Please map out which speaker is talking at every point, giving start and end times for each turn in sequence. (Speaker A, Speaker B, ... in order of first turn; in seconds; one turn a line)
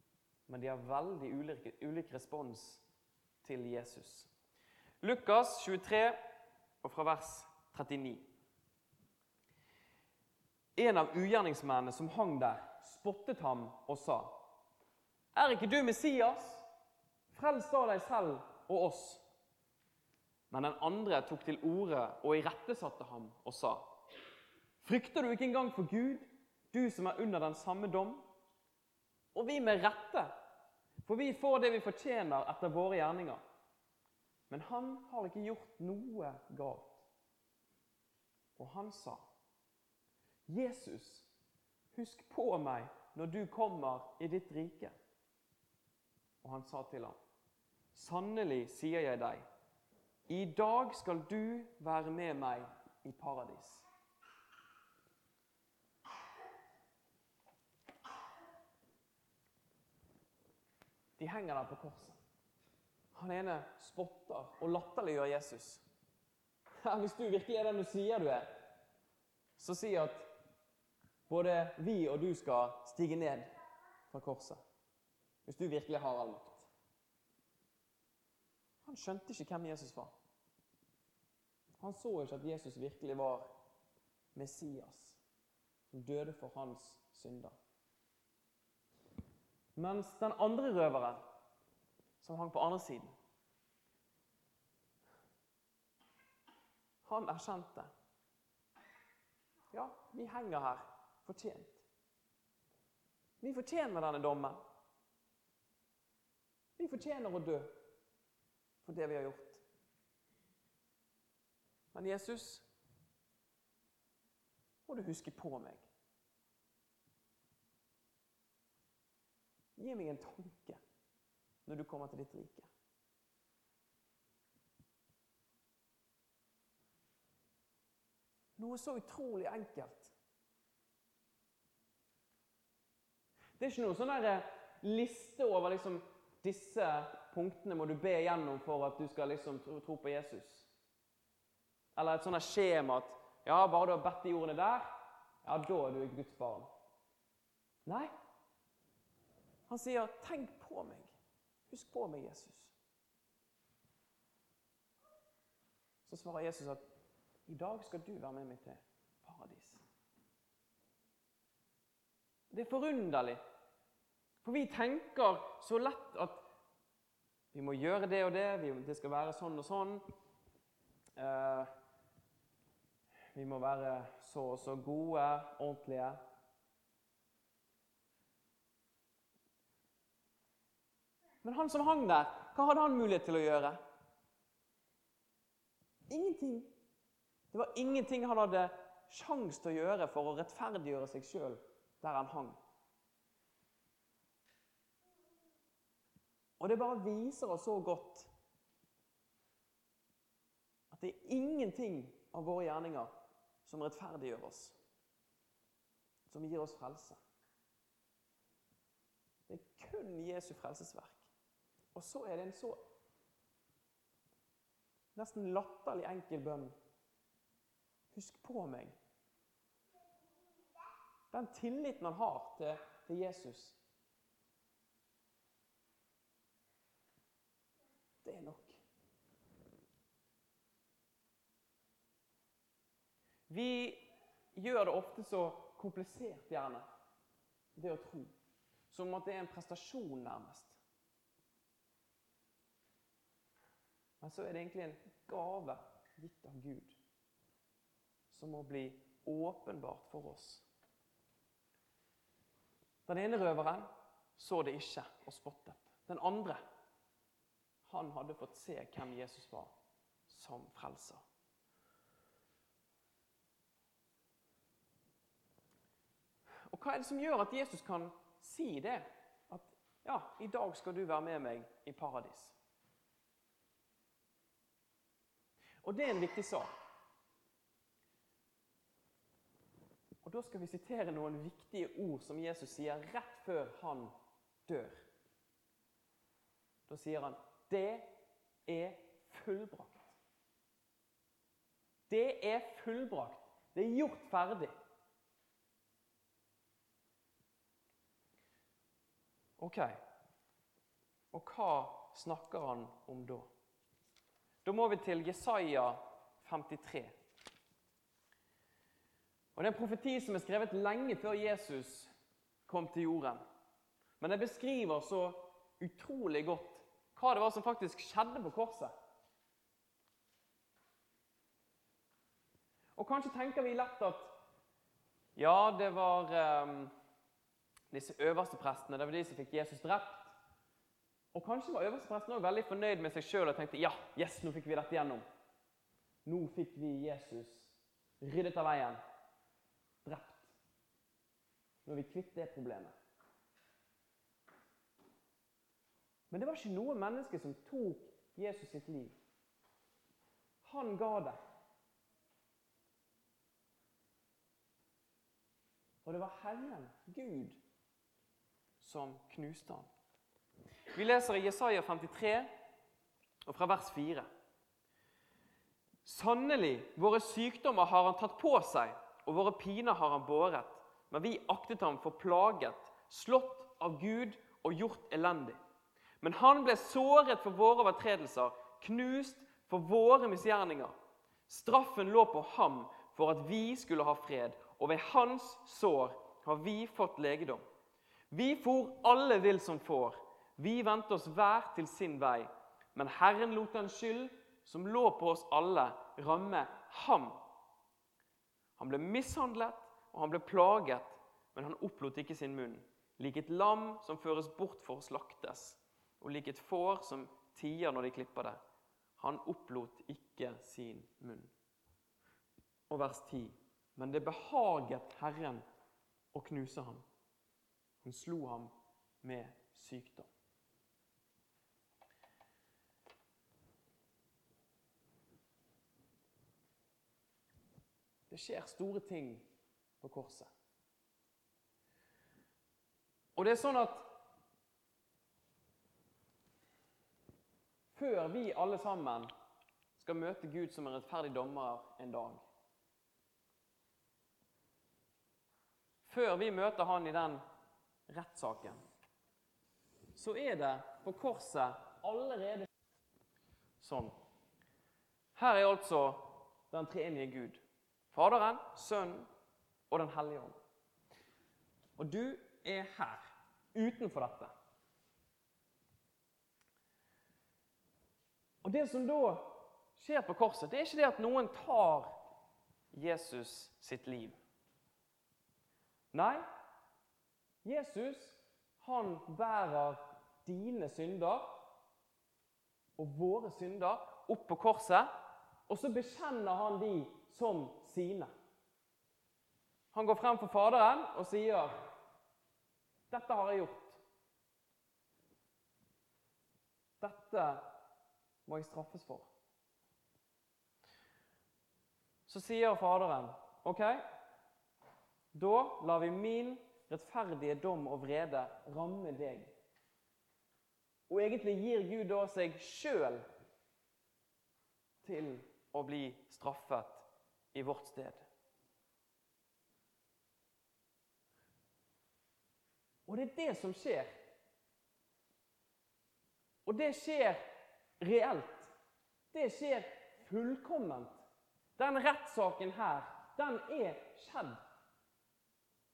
Speaker A: 0.5-2.8
Speaker A: 3.4-4.3
Speaker A: 5.0-6.2
Speaker A: 6.8-8.3
Speaker A: 10.8-14.4
Speaker A: 15.3-16.7
Speaker A: 17.3-19.2
Speaker A: 20.5-23.9
Speaker A: 24.8-28.3
Speaker A: 29.3-30.3
Speaker A: 31.0-33.4
Speaker A: 34.5-37.1
Speaker A: 38.6-39.2
Speaker A: 40.5-41.3
Speaker A: 41.9-44.9
Speaker A: 46.4-47.2
Speaker A: 47.9-49.5
Speaker A: 50.3-53.9
Speaker A: 61.2-62.2
Speaker A: 63.1-65.8
Speaker A: 66.8-68.5
Speaker A: 69.6-70.3
Speaker A: 71.3-73.5
Speaker A: 74.1-74.6
Speaker A: 75.4-76.7
Speaker A: 78.8-80.1
Speaker A: 81.8-83.5
Speaker A: 84.3-85.2
Speaker A: 85.9-87.6
Speaker A: 89.8-91.2
Speaker A: 92.2-93.1
Speaker A: 97.0-97.9
Speaker A: 99.7-101.8
Speaker A: 103.4-104.6
Speaker A: 106.8-107.8
Speaker A: 108.8-109.6
Speaker A: 111.9-112.7
Speaker A: 114.9-115.9
Speaker A: 119.8-120.8
Speaker A: 121.7-122.7
Speaker A: 128.6-130.1
Speaker A: 133.6-140.7
Speaker A: 141.9-144.9
Speaker A: 145.4-146.7
Speaker A: 147.8-148.1
Speaker A: 149.7-151.1
Speaker A: 151.7-152.7
Speaker A: 156.1-156.8
Speaker A: 157.5-159.8
Speaker A: 162.5-163.4
Speaker A: 164.4-166.4
Speaker A: 167.5-170.1
Speaker A: 171.2-171.7
Speaker A: 173.3-176.2
Speaker A: 181.4-183.8
Speaker A: 186.1-186.7
Speaker A: 187.5-192.6
Speaker A: 196.6-198.3
Speaker A: 200.9-203.1
Speaker A: 203.6-204.8
Speaker A: 206.3-207.2
Speaker A: 209.5-211.3
Speaker A: 211.9-212.8
Speaker A: 215.1-216.7
Speaker A: 218.1-218.9
Speaker A: 221.3-223.8
Speaker A: 228.2-228.8
Speaker A: 233.5-236.9
Speaker A: 237.8-238.3
Speaker A: 238.9-240.8
Speaker A: 244.2-246.9
Speaker A: 248.3-250.7
Speaker A: 253.1-256.6
Speaker A: 257.8-259.7
Speaker A: 260.3-261.2
Speaker A: 266.7-272.6
Speaker A: 275.8-276.7
Speaker A: 280.2-284.1
Speaker A: 284.7-285.0
Speaker A: 286.9-290.2
Speaker A: 292.1-294.7
Speaker A: 299.6-300.0
Speaker A: 301.3-303.5
Speaker A: 304.6-307.1
Speaker A: 309.5-312.1
Speaker A: 312.6-313.4
Speaker A: 314.2-318.9
Speaker A: 322.9-324.3
Speaker A: 325.4-326.9
Speaker A: 327.9-330.3
Speaker A: 331.3-335.2
Speaker A: 336.2-339.0
Speaker A: 340.0-340.5
Speaker A: 341.8-342.9
Speaker A: 346.3-349.1
Speaker A: 350.6-351.4
Speaker A: 356.0-357.6
Speaker A: 358.8-359.9
Speaker A: 360.9-362.5
Speaker A: 363.4-364.3
Speaker A: 366.0-375.6
Speaker A: 376.2-380.9
Speaker A: 381.5-387.6
Speaker A: 388.3-397.4
Speaker A: 398.8-408.6
Speaker A: 409.2-411.5
Speaker A: 412.9-415.6
Speaker A: 416.3-417.0
Speaker A: 418.0-420.3
Speaker A: 428.3-429.5
Speaker A: 430.0-430.5
Speaker A: 433.4-434.1
Speaker A: 437.9-439.3
Speaker A: 440.0-442.4
Speaker A: 446.0-447.4
Speaker A: 448.1-448.8
Speaker A: 450.1-452.7
Speaker A: 453.8-454.1
Speaker A: 455.3-459.3
Speaker A: 459.9-460.6
Speaker A: 462.0-464.5
Speaker A: 468.6-472.1
Speaker A: 472.9-474.4
Speaker A: 476.1-476.4
Speaker A: 477.6-481.7
Speaker A: 483.0-485.1
Speaker A: 485.7-488.3
Speaker A: 489.9-491.9
Speaker A: 493.1-494.0
Speaker A: 497.0-497.7
Speaker A: 498.4-499.3
Speaker A: 502.3-504.0
Speaker A: 505.3-509.5
Speaker A: 511.1-513.2
Speaker A: 515.0-518.2
Speaker A: 523.1-524.1
Speaker A: 526.6-527.4
Speaker A: 528.0-528.7
Speaker A: 529.3-531.2
Speaker A: 531.8-534.6